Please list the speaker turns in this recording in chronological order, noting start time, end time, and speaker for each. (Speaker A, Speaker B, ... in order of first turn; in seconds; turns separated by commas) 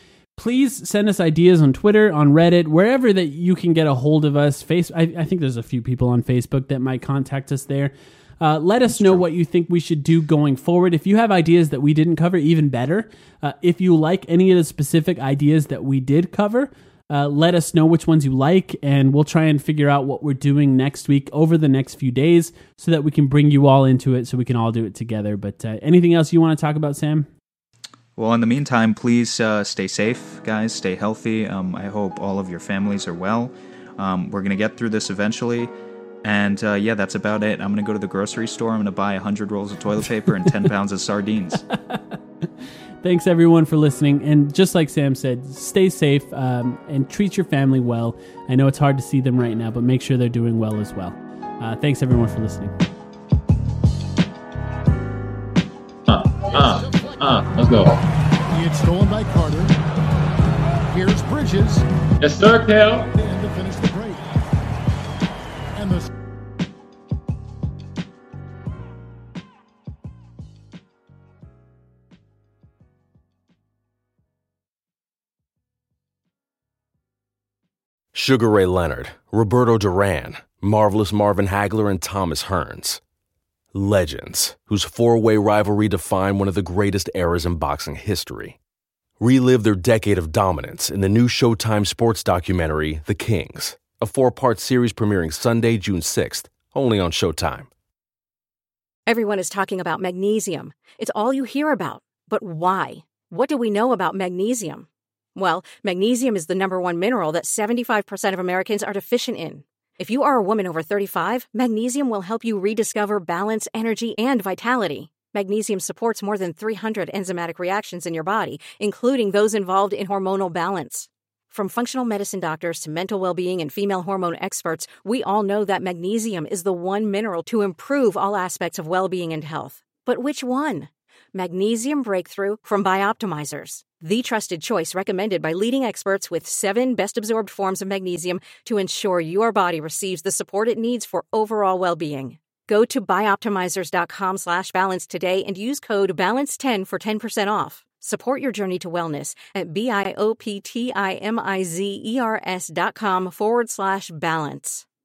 Speaker A: 0.4-27.3, Speaker B: 8.9-9.2, Speaker B: 28.2-35.7, Speaker B: 36.2-41.6, Speaker A: 41.7-42.2, Speaker A: 43.0-52.7, Speaker C: 56.1-58.0, Speaker D: 56.8-57.2, Speaker D: 58.5-59.7, Speaker D: 60.9-61.9, Speaker C: 62.2-63.1, Speaker D: 63.1-64.2, Speaker D: 65.8-66.0, Speaker E: 78.1-83.0, Speaker E: 83.7-88.6, Speaker E: 89.2-97.7, Speaker F: 99.1-154.8